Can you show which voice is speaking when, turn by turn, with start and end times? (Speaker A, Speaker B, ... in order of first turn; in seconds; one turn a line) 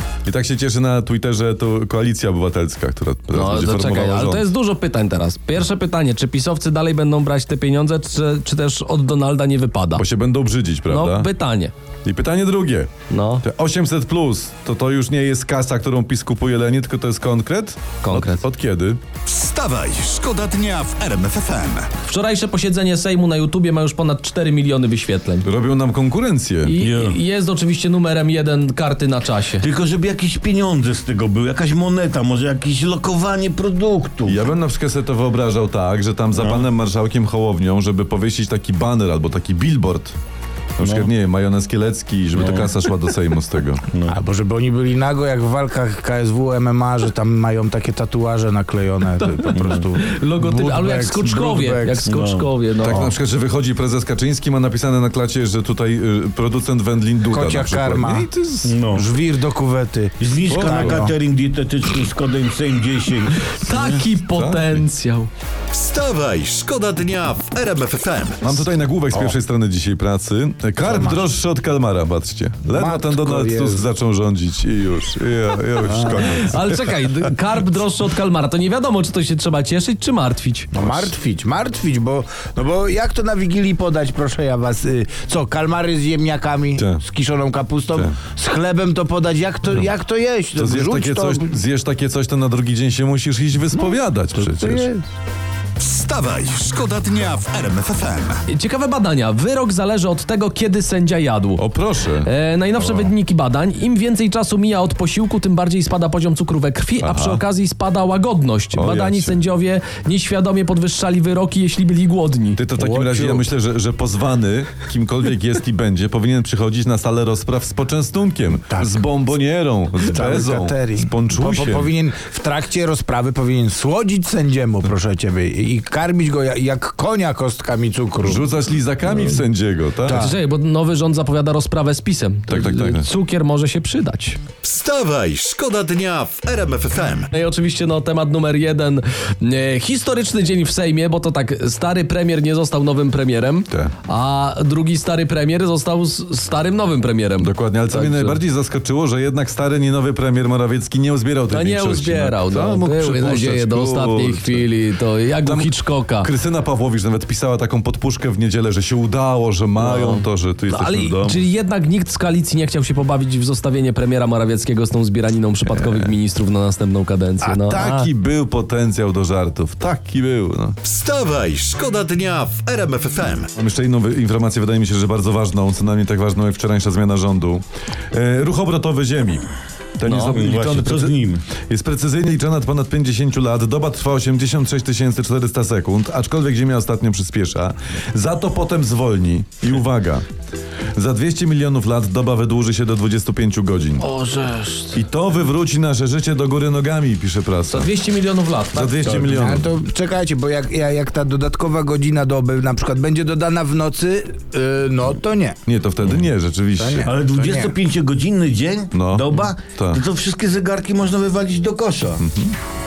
Speaker A: 0.2-4.5
Speaker B: 3.3-10.0
Speaker A: 9.9-11.3
Speaker B: 10.9-11.7
Speaker A: 12.0-12.9
Speaker B: 13.1-13.4
Speaker A: 13.4-19.0
Speaker B: 18.0-18.4
Speaker C: 19.2-21.9
Speaker B: 22.0-25.5
Speaker A: 25.4-26.7
Speaker B: 26.6-29.7
Speaker D: 26.8-27.2
Speaker D: 29.6-34.5
Speaker A: 34.2-40.1
Speaker D: 36.3-36.6
Speaker A: 40.8-43.8
Speaker D: 40.8-41.1
Speaker D: 42.3-42.7
Speaker D: 43.9-44.2
Speaker E: 44.1-52.1
Speaker D: 49.5-49.9
Speaker B: 49.9-53.1
Speaker D: 52.0-52.5
Speaker A: 52.8-58.4
Speaker E: 52.8-53.1
Speaker E: 57.3-61.1
Speaker D: 58.6-59.1
Speaker D: 60.2-64.0
Speaker A: 60.5-61.0
Speaker B: 63.5-65.3
Speaker A: 64.3-64.8
Speaker C: 65.7-68.6
Speaker A: 68.4-76.8
Speaker E: 70.8-71.2
Speaker E: 72.7-73.9
Speaker E: 75.8-76.4
Speaker B: 76.0-80.7
Speaker E: 80.7-91.5
Speaker A: 80.8-81.1
Speaker A: 86.8-87.0
Speaker A: 90.5-94.9
Speaker E: 93.9-95.0
Speaker C: 95.8-98.4
Speaker B: 98.5-101.7
Speaker A: 101.6-103.1
Speaker B: 102.2-112.6
Speaker A: 107.0-107.4
Speaker A: 108.7-109.4
Speaker A: 112.5-121.9
Speaker E: 112.8-113.4
Speaker E: 118.7-119.0
Speaker E: 120.0-128.4
Speaker A: 128.2-130.3
Speaker E: 130.0-130.4
Speaker B: 130.1-134.4
Speaker A: 132.5-133.1
Speaker C: 134.6-137.3
Speaker B: 137.3-148.4
Speaker A: 147.4-154.7
Speaker B: 151.5-156.3
Speaker A: 155.4-161.4
Speaker B: 159.8-168.1
Speaker A: 165.7-166.2
Speaker A: 167.4-170.8
Speaker C: 170.8-173.5
Speaker A: 173.5-190.2
Speaker B: 180.0-180.4
Speaker D: 180.3-181.4
Speaker A: 190.9-194.1
Speaker B: 194.0-195.0
Speaker A: 194.9-197.9
Speaker B: 197.7-199.1
Speaker A: 198.7-199.7
Speaker E: 199.2-205.6
Speaker A: 205.7-207.1
Speaker E: 206.8-207.7
Speaker D: 207.0-212.2
Speaker A: 208.9-210.0
Speaker A: 212.2-212.5